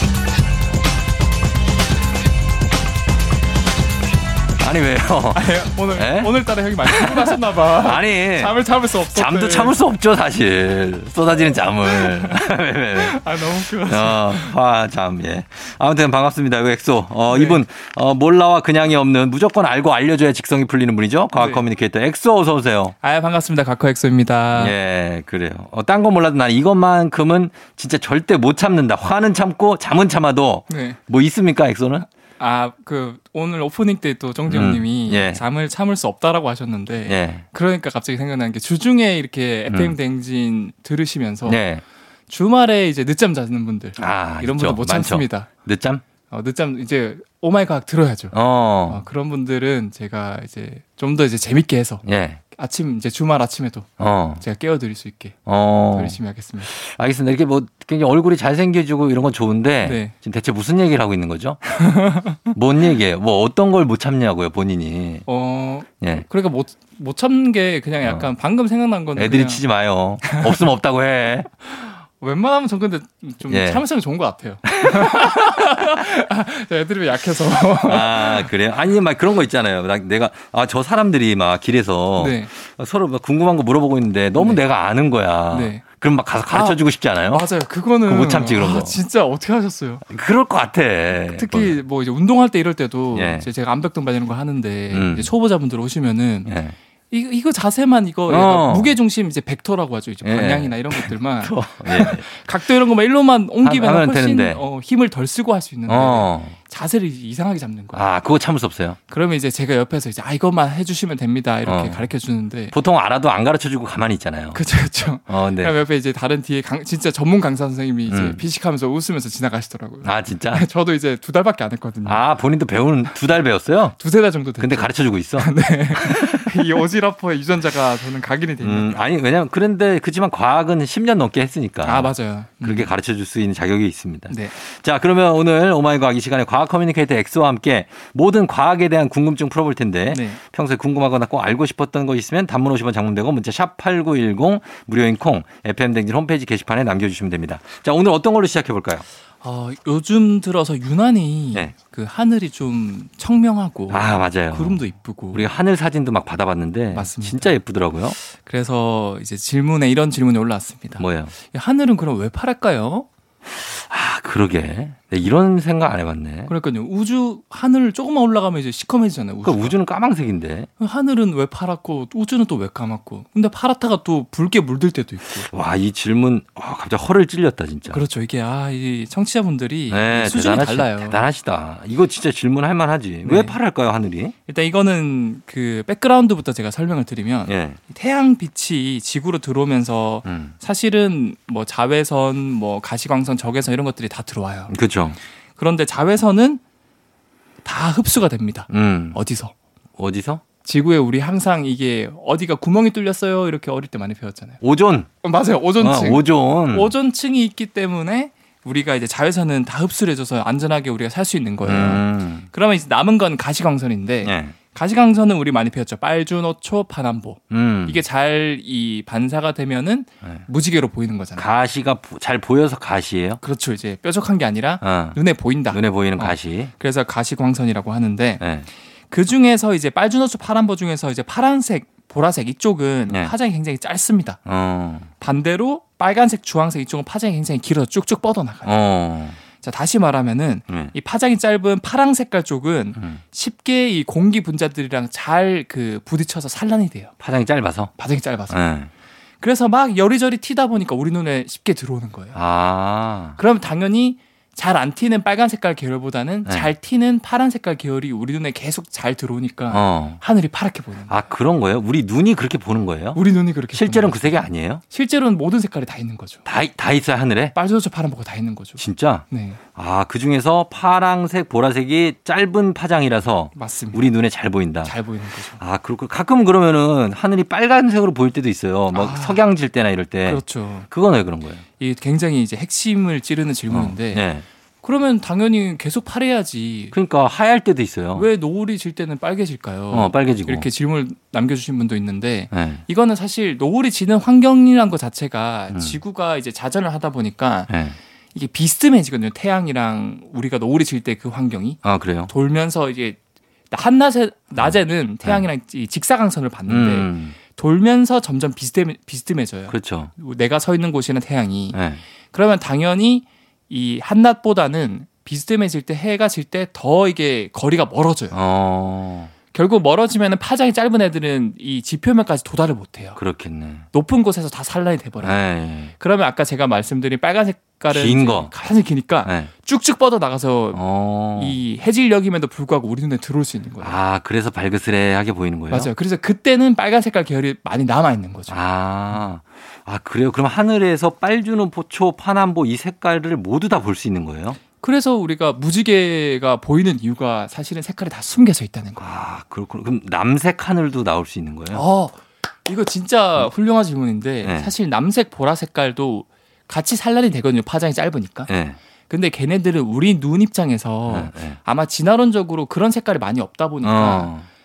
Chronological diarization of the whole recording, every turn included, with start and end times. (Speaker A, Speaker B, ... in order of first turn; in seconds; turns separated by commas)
Speaker A: 4.6-8.6, Speaker B: 5.3-9.8, Speaker A: 9.1-22.9, Speaker B: 11.8-12.4, Speaker B: 12.9-14.6, Speaker B: 17.3-17.6, Speaker B: 21.4-21.6, Speaker B: 23.0-24.7, Speaker A: 24.5-32.0, Speaker B: 30.7-31.0, Speaker B: 32.4-41.6, Speaker A: 34.5-35.4, Speaker A: 37.1-37.4, Speaker A: 39.7-39.9, Speaker A: 41.4-41.8, Speaker B: 42.3-45.5, Speaker A: 44.0-46.0, Speaker B: 46.3-48.3, Speaker A: 48.3-49.0, Speaker B: 48.9-55.4, Speaker A: 52.0-52.4, Speaker A: 54.0-54.4, Speaker A: 55.5-61.6, Speaker B: 55.9-56.7, Speaker B: 59.8-60.1, Speaker B: 61.7-62.5, Speaker A: 62.5-65.2, Speaker B: 65.3-69.6, Speaker A: 69.2-71.5, Speaker B: 70.2-70.6, Speaker B: 71.7-78.5, Speaker A: 73.5-73.8, Speaker A: 74.7-76.0, Speaker A: 77.7-87.5, Speaker B: 82.2-82.5, Speaker B: 85.5-85.8, Speaker B: 86.5-86.8, Speaker B: 87.3-90.0, Speaker A: 88.0-88.9, Speaker A: 90.1-91.8, Speaker B: 91.3-96.5, Speaker A: 93.1-93.5, Speaker A: 94.9-95.3, Speaker A: 96.5-96.8, Speaker B: 97.1-108.0, Speaker A: 98.3-99.0, Speaker A: 100.2-102.3, Speaker A: 103.6-104.6, Speaker A: 105.9-106.5, Speaker A: 107.9-109.0, Speaker B: 109.1-112.7, Speaker A: 111.7-112.0, Speaker A: 112.7-114.6, Speaker B: 114.5-122.2, Speaker A: 115.3-115.7, Speaker A: 118.1-118.4, Speaker A: 120.0-120.7, Speaker A: 122.0-124.0, Speaker B: 124.0-129.0, Speaker A: 124.6-126.6, Speaker A: 128.6-149.1, Speaker B: 131.8-132.9, Speaker B: 134.3-134.5, Speaker B: 140.1-140.4, Speaker B: 149.4-155.5, Speaker A: 153.9-154.8, Speaker A: 155.3-158.2, Speaker B: 156.9-157.6, Speaker B: 158.2-163.1, Speaker A: 161.0-161.3, Speaker A: 163.5-166.5, Speaker B: 166.5-169.7, Speaker A: 169.4-170.7, Speaker B: 170.8-175.5, Speaker A: 175.4-178.0, Speaker B: 177.9-181.2, Speaker A: 179.9-184.3, Speaker B: 183.2-183.6, Speaker B: 184.5-194.7, Speaker A: 187.5-187.8, Speaker A: 190.2-190.5, Speaker A: 194.7-195.2, Speaker B: 195.6-196.6, Speaker B: 197.6-199.5, Speaker A: 198.7-199.2, Speaker A: 200.0-200.4, Speaker B: 200.6-204.6, Speaker A: 204.6-205.1, Speaker B: 205.2-221.4, Speaker A: 205.8-206.9, Speaker A: 211.6-212.5, Speaker A: 214.2-214.5, Speaker A: 217.5-218.0, Speaker A: 221.4-223.4, Speaker B: 223.4-228.4, Speaker A: 224.8-225.2, Speaker A: 225.7-226.7, Speaker A: 228.4-228.7, Speaker B: 229.1-234.4, Speaker A: 234.4-235.1, Speaker B: 235.2-238.7, Speaker A: 238.6-239.4, Speaker B: 239.6-247.1, Speaker A: 240.7-240.9, Speaker A: 247.2-247.9, Speaker B: 248.0-248.6, Speaker A: 248.5-248.9, Speaker B: 249.4-252.4, Speaker A: 252.3-253.4, Speaker B: 253.4-261.1, Speaker A: 259.7-260.2, Speaker A: 261.1-263.2, Speaker B: 263.1-266.4, Speaker A: 263.7-264.8, Speaker A: 266.4-267.5, Speaker B: 267.5-269.6, Speaker A: 268.8-274.9, Speaker B: 273.5-274.0, Speaker B: 274.8-275.6, Speaker A: 275.6-281.6, Speaker B: 278.9-279.4, Speaker B: 280.3-280.9, Speaker B: 281.8-284.3, Speaker A: 283.7-284.4, Speaker B: 284.8-286.9, Speaker A: 286.9-288.2, Speaker B: 288.1-297.7, Speaker A: 289.9-290.7, Speaker A: 292.5-292.8, Speaker A: 295.7-296.0, Speaker A: 297.7-298.0, Speaker B: 298.3-303.2, Speaker A: 301.8-302.3, Speaker B: 303.7-311.8, Speaker A: 306.7-307.4, Speaker A: 309.7-310.1, Speaker A: 311.7-312.0, Speaker B: 312.3-318.4, Speaker A: 318.3-319.3, Speaker B: 319.5-323.2, Speaker A: 323.2-323.9, Speaker B: 323.9-325.4, Speaker A: 325.2-325.9, Speaker B: 326.0-330.8, Speaker A: 327.9-328.5, Speaker A: 329.2-329.5, Speaker A: 330.7-331.6, Speaker B: 331.3-334.0, Speaker A: 333.8-335.9, Speaker B: 335.7-338.5, Speaker A: 338.5-344.6, Speaker B: 344.8-349.0, Speaker A: 349.0-351.8, Speaker B: 351.7-358.5, Speaker A: 354.4-354.7, Speaker A: 358.5-358.8, Speaker B: 359.1-364.3, Speaker A: 361.1-361.6, Speaker A: 363.8-364.4